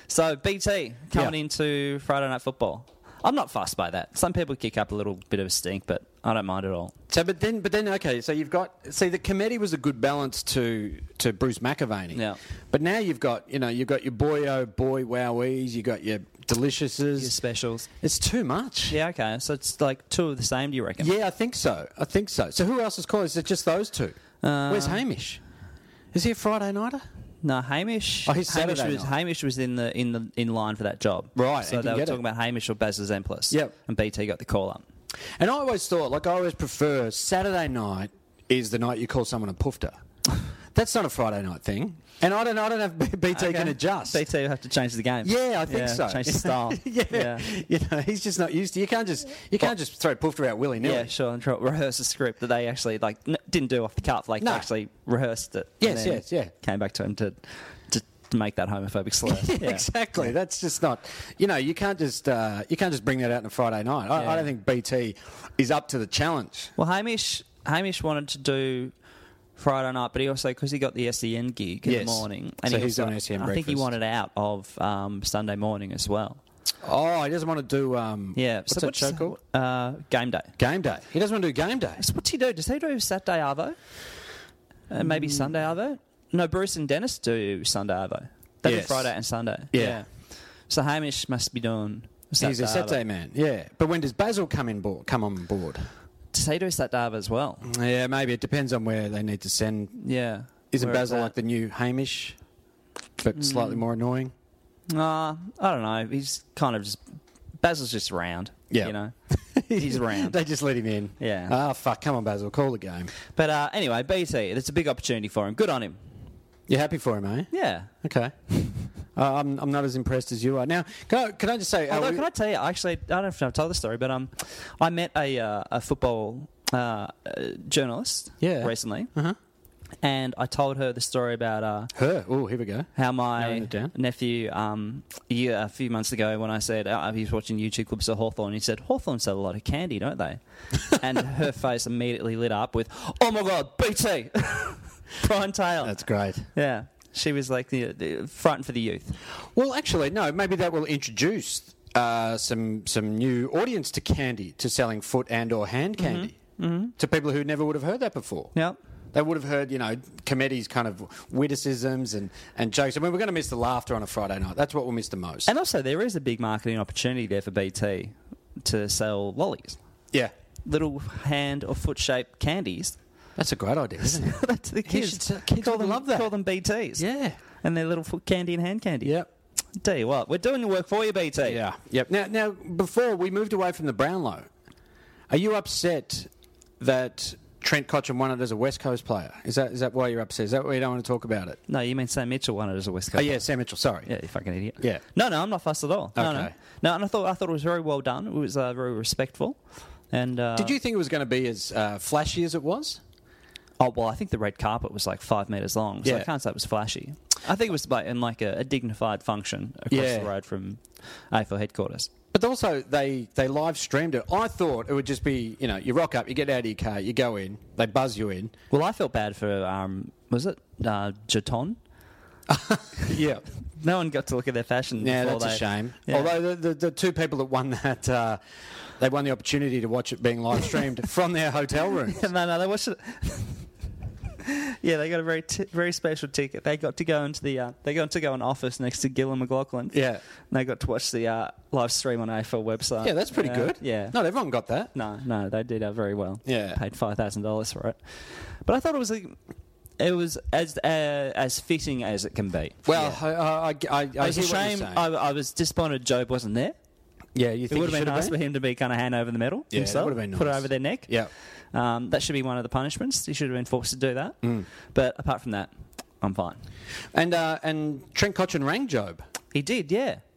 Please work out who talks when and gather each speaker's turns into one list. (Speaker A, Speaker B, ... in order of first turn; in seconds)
Speaker A: 0.1-6.9, 12.1-12.4, 17.2-17.9, 18.9-21.1, 24.4-25.0, 27.4-34.8, 43.3-47.5, 50.8-60.3, 64.1-64.5, 66.8-68.9, 69.6-76.4, 78.3-80.5, 82.0-83.8, 84.9-90.1, 90.7-93.0, 96.3-97.7, 100.0-101.3, 103.4-103.8, 104.9-107.0, 107.6-109.1, 109.8-110.4, 111.2-111.5, 113.3-116.0, 117.5-117.9, 121.9-129.1, 130.0-131.9, 133.0-146.0, 146.5-149.2, 156.0-156.9, 165.5-169.8, 170.6-173.0, 174.0-177.1, 177.6-179.1, 179.8-181.6, 191.7-193.4, 194.1-199.6, 200.1-200.8, 203.8-212.1, 218.7-221.8, 223.8-226.3, 232.1-233.7, 234.4-244.2, 244.9-249.4, 250.0-253.2, 254.2-256.8, 257.7-261.1, 261.7-266.6, 269.5-270.2
Speaker B: 7.1-17.4, 18.0-19.0, 21.0-25.4, 26.1-27.0, 28.3-29.1, 31.4-32.2, 35.4-40.0, 40.7-44.2, 45.2-51.1, 54.4-54.7, 55.8-56.5, 59.2-66.7, 71.8-73.9, 76.8-79.4, 80.6-82.0, 85.0-85.5, 88.6-89.1, 89.7-90.0, 92.4-95.9, 97.6-100.0, 100.7-102.4, 103.2-104.3, 108.7-113.1, 116.7-117.5, 118.0-122.3, 128.4-129.4, 131.9-133.9, 145.8-146.5, 149.5-156.4, 157.0-158.5, 159.1-165.5, 173.4-176.3, 177.0-177.4, 179.0-179.3, 181.4-184.5, 185.3-186.3, 186.8-191.6, 193.1-194.1, 196.1-196.5, 200.6-203.0, 206.0-206.3, 209.9-210.3, 212.3-218.5, 222.5-223.4, 225.0-228.4, 229.0-232.2, 239.9-240.2, 243.0-244.9, 246.4-246.8, 252.9-255.1, 257.4-258.4, 259.7-261.3, 267.1-269.2